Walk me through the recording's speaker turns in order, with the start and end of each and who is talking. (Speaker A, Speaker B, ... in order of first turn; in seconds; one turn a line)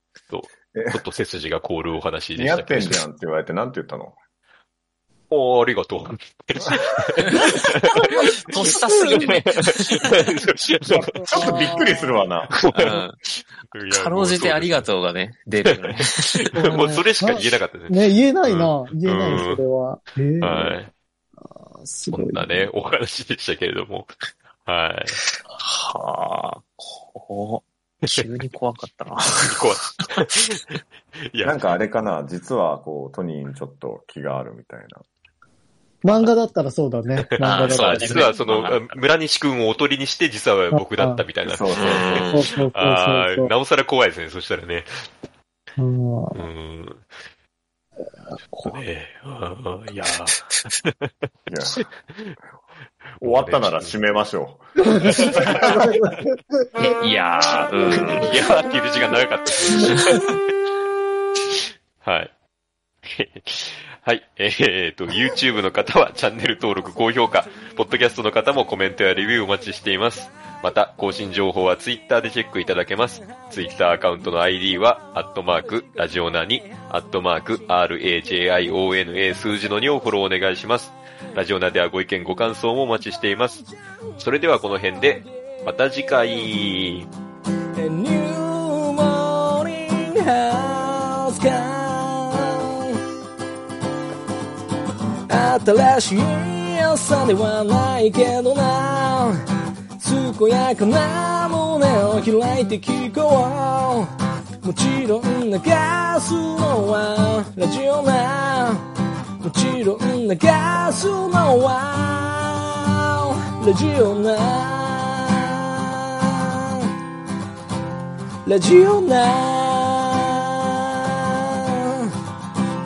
Speaker A: 0.3-3.0
Speaker B: 0.7-1.0
Speaker B: 2.3-4.2
Speaker A: 5.3-8.3
Speaker C: 8.4-10.2
Speaker A: 9.0-11.6
Speaker D: 11.1-12.1
Speaker B: 11.2-12.5
Speaker A: 12.6-14.9
Speaker C: 12.7-13.2
Speaker C: 13.9-16.5
Speaker A: 15.6-19.6
Speaker D: 16.5-20.8
Speaker A: 20.4-20.9
Speaker D: 21.4-22.7
Speaker A: 22.1-25.2
Speaker C: 25.5-30.2
Speaker A: 29.4-30.8
Speaker A: 31.3-31.8
Speaker B: 31.4-35.0
Speaker D: 36.0-38.3
Speaker A: 37.2-45.1
Speaker C: 37.4-38.9
Speaker D: 40.7-41.2
Speaker B: 41.4-42.3
Speaker C: 41.7-42.5
Speaker D: 42.3-43.5
Speaker D: 45.8-46.5
Speaker A: 46.3-47.1
Speaker A: 48.6-51.1
Speaker B: 51.5-51.9
Speaker A: 51.8-52.4
Speaker A: 53.2-54.0
Speaker B: 53.2-55.9
Speaker D: 55.9-56.1
Speaker C: 56.8-58.3
Speaker A: 57.9-60.3
Speaker A: 62.0-62.3
Speaker A: 63.0-83.7
Speaker A: 84.2-87.1
Speaker E: 87.8-93.0
Speaker E: 95.3-99.3
Speaker E: 100.0-104.1
Speaker E: 104.6-108.8
Speaker E: 109.4-116.8
Speaker E: 118.4-122.0